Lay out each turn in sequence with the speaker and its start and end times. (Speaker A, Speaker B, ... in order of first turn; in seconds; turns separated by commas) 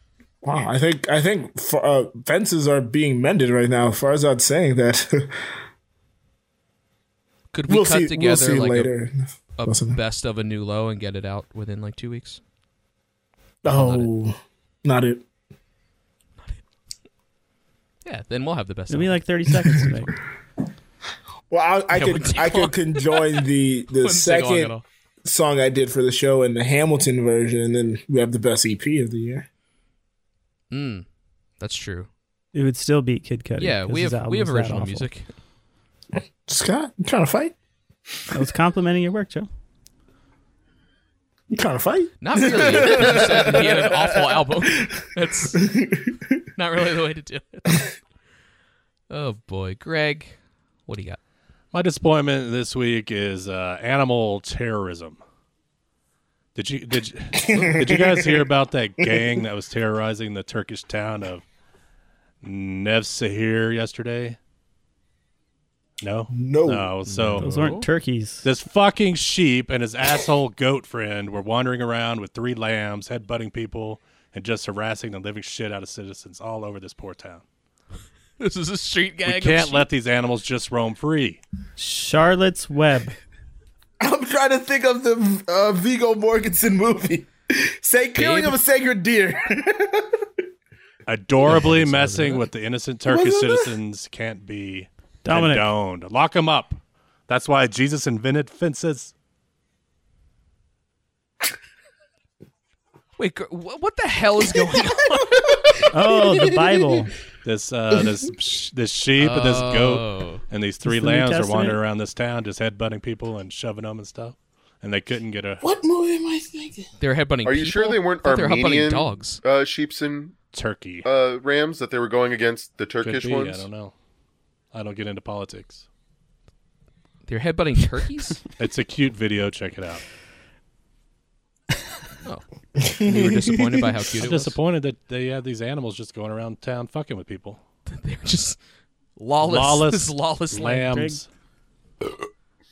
Speaker A: 0.4-5.3, Speaker B: 7.5-8.9, Speaker A: 7.7-10.0, Speaker B: 9.6-12.4, Speaker A: 13.6-15.2, Speaker B: 13.7-14.1, Speaker B: 18.0-19.2, Speaker C: 18.9-20.2, Speaker A: 21.5-29.4, Speaker B: 21.9-23.4, Speaker B: 24.0-24.8, Speaker B: 30.7-31.1, Speaker B: 31.6-32.1, Speaker C: 32.5-35.1, Speaker B: 33.6-35.3, Speaker A: 36.5-37.5, Speaker C: 38.3-39.5, Speaker A: 41.5-45.0, Speaker B: 42.2-45.6, Speaker A: 45.5-46.2, Speaker B: 46.5-47.9, Speaker B: 49.1-50.4, Speaker B: 50.9-51.2, Speaker D: 51.7-55.2, Speaker D: 56.5-61.4, Speaker A: 57.4-58.5, Speaker A: 59.0-59.3, Speaker D: 62.4-64.4, Speaker D: 66.0-67.8, Speaker A: 66.3-67.4, Speaker C: 67.3-68.5, Speaker B: 67.4-67.8, Speaker D: 68.4-77.4, Speaker B: 78.4-79.8, Speaker D: 79.2-81.4, Speaker C: 81.8-83.2, Speaker A: 84.0-90.2, Speaker B: 88.2-88.6, Speaker D: 91.1-99.1, Speaker B: 91.5-92.4, Speaker A: 93.0-93.8, Speaker C: 95.2-95.7, Speaker B: 103.2-105.8, Speaker C: 105.9-107.1, Speaker A: 106.0-106.9, Speaker D: 107.4-115.6, Speaker B: 109.2-110.4, Speaker C: 110.8-111.8, Speaker A: 115.6-116.9, Speaker B: 117.0-119.4, Speaker E: 117.4-120.3, Speaker D: 120.5-121.1, Speaker E: 121.0-123.7, Speaker D: 123.0-123.9, Speaker D: 124.7-125.8, Speaker B: 127.3-128.4, Speaker D: 128.6-130.0, Speaker B: 132.2-134.6, Speaker A: 132.8-133.8, Speaker D: 134.2-137.6, Speaker B: 137.9-138.6, Speaker B: 139.2-140.8, Speaker D: 139.4-141.3, Speaker C: 140.6-141.2